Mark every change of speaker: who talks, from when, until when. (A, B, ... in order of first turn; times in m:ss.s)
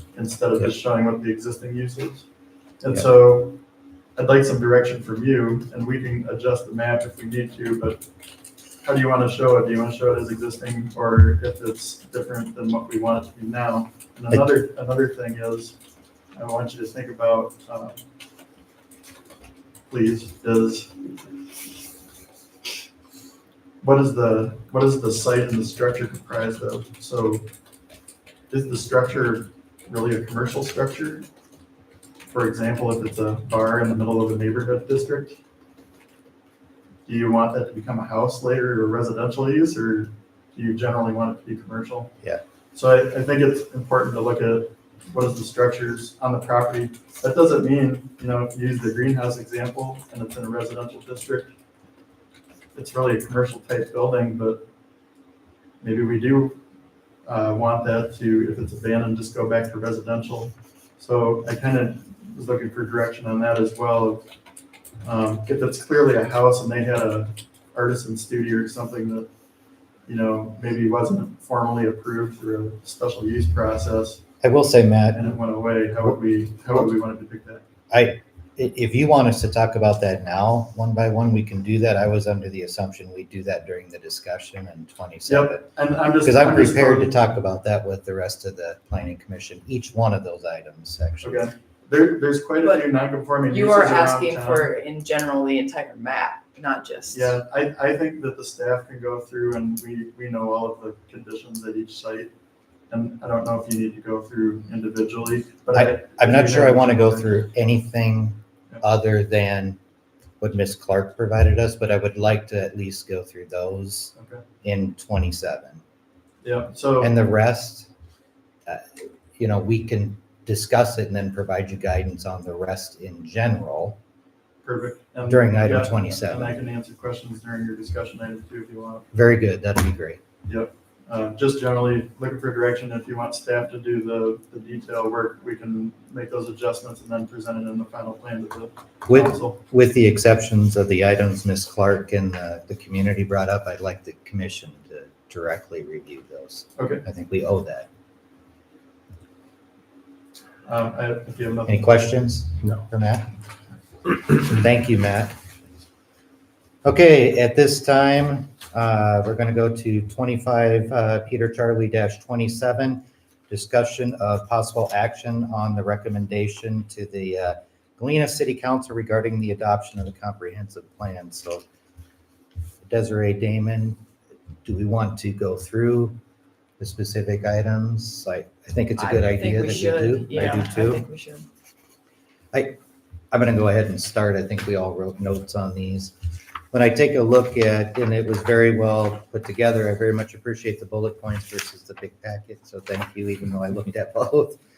0:00.1-0:02.3 A
0:02.8-0:03.6 A
0:04.2-0:08.0 A
0:08.8-0:15.8 A
0:16.4-0:18.0 A
0:19.9-0:21.0 A
0:23.8-0:27.5 A
0:28.5-0:31.3 A
0:32.3-0:35.4 A
0:37.1-0:42.1 A
0:42.7-0:51.5 A
0:52.8-0:54.6 A
0:55.8-0:56.6 A
0:57.3-1:04.3 A
1:05.0-1:09.3 A
1:10.1-1:14.2 A
1:14.4-1:15.4 B
1:15.1-1:17.6 A
1:17.9-1:25.7 B
1:25.3-1:27.2 A
1:26.2-1:31.5 B
1:31.2-1:34.7 A
1:32.6-1:32.9 C
1:33.4-1:37.4 C
1:37.1-1:42.3 A
1:42.9-1:47.3 A
1:45.7-1:49.8 B
1:50.4-1:55.8 B
1:54.2-1:54.4 A
1:56.4-1:57.1 A
1:57.0-1:57.9 B
1:58.7-2:04.0 B
2:04.6-2:09.1 A
2:05.3-2:06.6 B
2:09.1-2:10.2 B
2:10.5-2:19.6 A
2:19.1-2:27.9 B
2:26.8-2:27.0 A
2:30.7-2:32.0 A
2:31.7-2:33.3 B
2:34.1-2:35.4 B
2:36.8-2:51.6 B
2:52.8-2:54.0 B
2:54.6-2:56.2 B
2:56.8-3:01.0 B
2:59.0-3:01.5 C
3:02.5-3:02.8 B
3:03.3-3:06.2 B
3:06.7-3:14.6 B